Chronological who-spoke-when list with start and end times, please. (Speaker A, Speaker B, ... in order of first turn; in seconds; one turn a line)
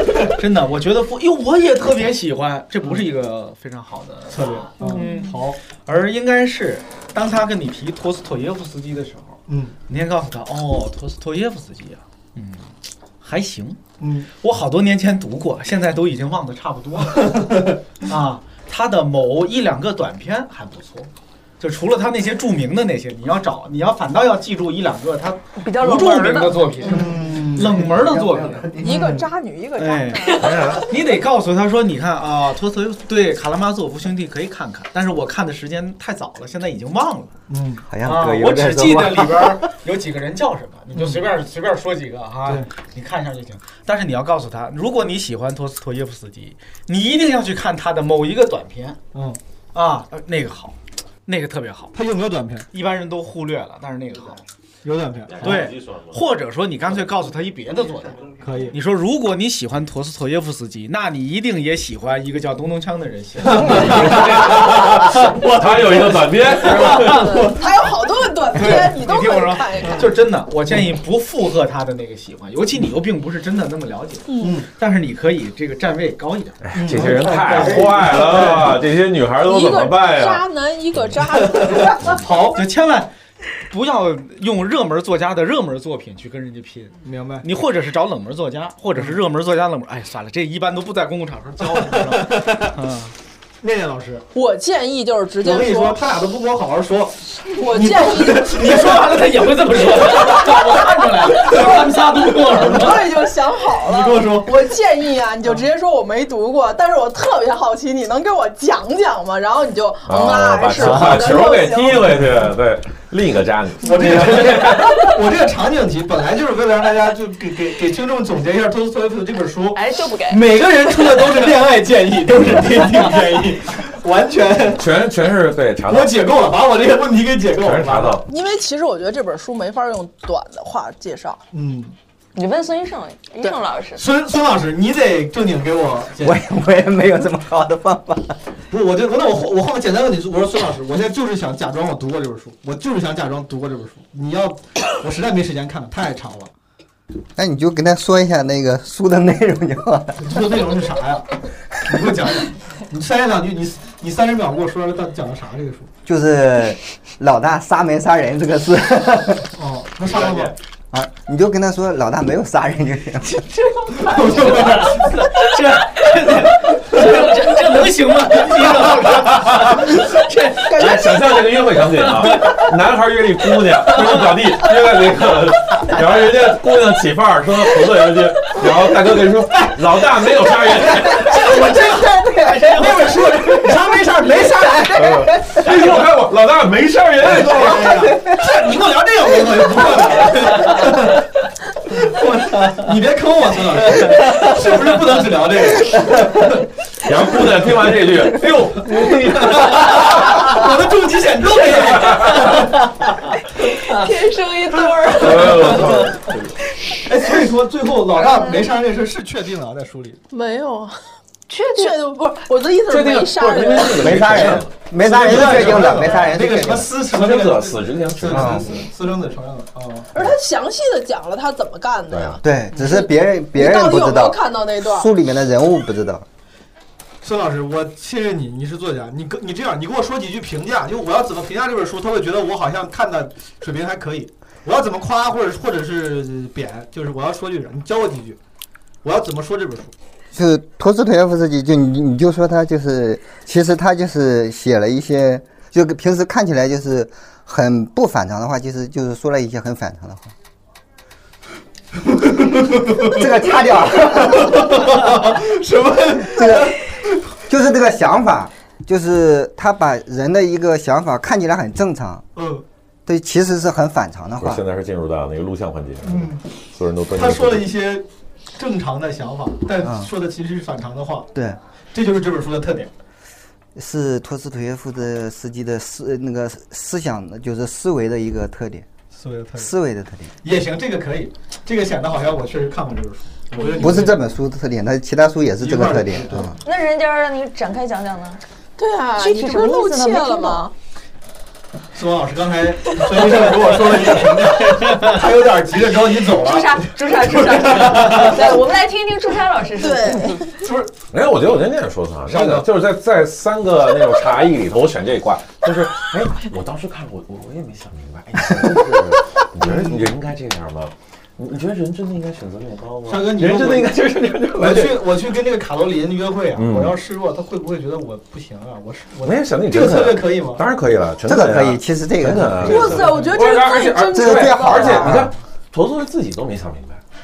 Speaker A: 0.2-13.8
Speaker B: 4.3-5.6
Speaker C: 4.8-5.1
Speaker B: 9.5-9.8
Speaker B: 14.0-14.3
Speaker A: 14.4-28.7
Speaker D: 25.6-27.1
Speaker B: 26.9-27.9
Speaker E: 27.4-29.2
Speaker C: 28.8-30.7
Speaker B: 28.9-29.2
Speaker A: 29.8-37.3
Speaker F: 30.4-30.8
Speaker B: 37.5-37.8
Speaker E: 37.9-39.6
Speaker A: 38.0-49.0
Speaker B: 40.9-41.2
Speaker B: 49.1-49.4
Speaker A: 49.7-51.9
Speaker B: 51.9-52.7
Speaker A: 52.7-54.4
Speaker B: 54.8-55.7
Speaker F: 55.3-56.1
Speaker A: 55.4-67.3
Speaker B: 58.4-58.8
Speaker F: 63.5-67.6
Speaker B: 63.6-64.0
Speaker C: 67.4-70.1
Speaker A: 68.5-77.8
Speaker B: 69.8-70.1
Speaker C: 74.3-74.6
Speaker B: 74.4-74.7
Speaker F: 76.6-80.5
Speaker B: 76.7-78.8
Speaker C: 79.4-82.2
Speaker B: 81.5-82.6
Speaker A: 82.5-83.1
Speaker A: 83.7-93.1
Speaker B: 87.0-87.5
Speaker B: 91.6-92.7
Speaker B: 93.6-94.2
Speaker C: 94.3-96.0
Speaker B: 95.4-99.2
Speaker C: 97.6-98.9
Speaker A: 98.5-103.1
Speaker B: 99.8-100.1
Speaker C: 100.1-101.6
Speaker B: 102.5-103.0
Speaker C: 102.5-112.1
Speaker B: 103.8-104.7
Speaker F: 110.1-115.0
Speaker B: 110.8-111.4
Speaker B: 113.8-124.9
Speaker D: 119.7-120.4
Speaker F: 124.8-126.2
Speaker B: 125.9-128.2
Speaker F: 127.6-128.2
Speaker C: 128.3-131.4
Speaker B: 131.5-131.9
Speaker D: 132.4-134.0
Speaker B: 134.0-136.4
Speaker E: 136.2-138.4
Speaker B: 138.7-146.5
Speaker E: 147.4-150.2
Speaker B: 150.2-155.9
Speaker E: 156.1-159.5
Speaker B: 159.5-160.6
Speaker F: 160.1-160.5
Speaker E: 160.9-163.4
Speaker B: 164.0-165.1
Speaker A: 164.5-172.6
Speaker B: 166.9-167.2
Speaker B: 168.7-169.1
Speaker F: 170.6-181.5
Speaker A: 173.9-174.2
Speaker B: 181.1-186.0
Speaker A: 181.4-183.4
Speaker F: 184.9-188.2
Speaker B: 187.2-191.3
Speaker B: 191.9-196.6
Speaker F: 197.0-200.4
Speaker B: 198.4-202.9
Speaker F: 201.9-202.3
Speaker D: 203.8-205.9
Speaker F: 205.1-206.5
Speaker B: 205.3-206.1
Speaker B: 207.0-210.2
Speaker C: 210.3-211.0
Speaker D: 211.5-212.0
Speaker C: 211.7-214.2
Speaker F: 212.9-214.7
Speaker E: 214.0-217.0
Speaker B: 215.0-220.1
Speaker F: 215.3-215.9
Speaker F: 217.0-218.8
Speaker E: 218.3-218.7
Speaker C: 220.1-225.1
Speaker F: 222.1-222.4
Speaker E: 222.4-226.3
Speaker B: 227.2-238.4
Speaker B: 239.0-239.9
Speaker E: 240.3-250.3
Speaker B: 252.2-253.3
Speaker E: 253.0-255.0
Speaker B: 254.2-257.1
Speaker E: 256.3-256.8
Speaker E: 257.5-262.3
Speaker B: 262.4-262.6
Speaker E: 263.1-264.6
Speaker F: 264.4-267.7
Speaker B: 266.0-266.5
Speaker B: 267.1-271.3
Speaker E: 269.8-270.1
Speaker B: 271.9-272.9
Speaker E: 273.8-278.9
Speaker B: 279.1-279.7
Speaker E: 279.6-280.3
Speaker B: 280.4-284.2
Speaker E: 283.8-286.6
Speaker B: 285.6-286.5
Speaker D: 286.6-288.4
Speaker C: 288.8-290.7
Speaker D: 289.2-290.7
Speaker B: 291.9-298.6
Speaker D: 296.4-300.5
Speaker C: 299.8-300.5
Speaker B: 300.6-300.9
Speaker F: 301.1-315.1
Speaker B: 302.3-302.7
Speaker B: 309.6-310.1
Speaker B: 313.1-320.6
Speaker F: 316.6-316.9
Speaker F: 319.2-327.0
Speaker E: 321.2-323.1
Speaker C: 322.6-325.2
Speaker E: 324.1-325.3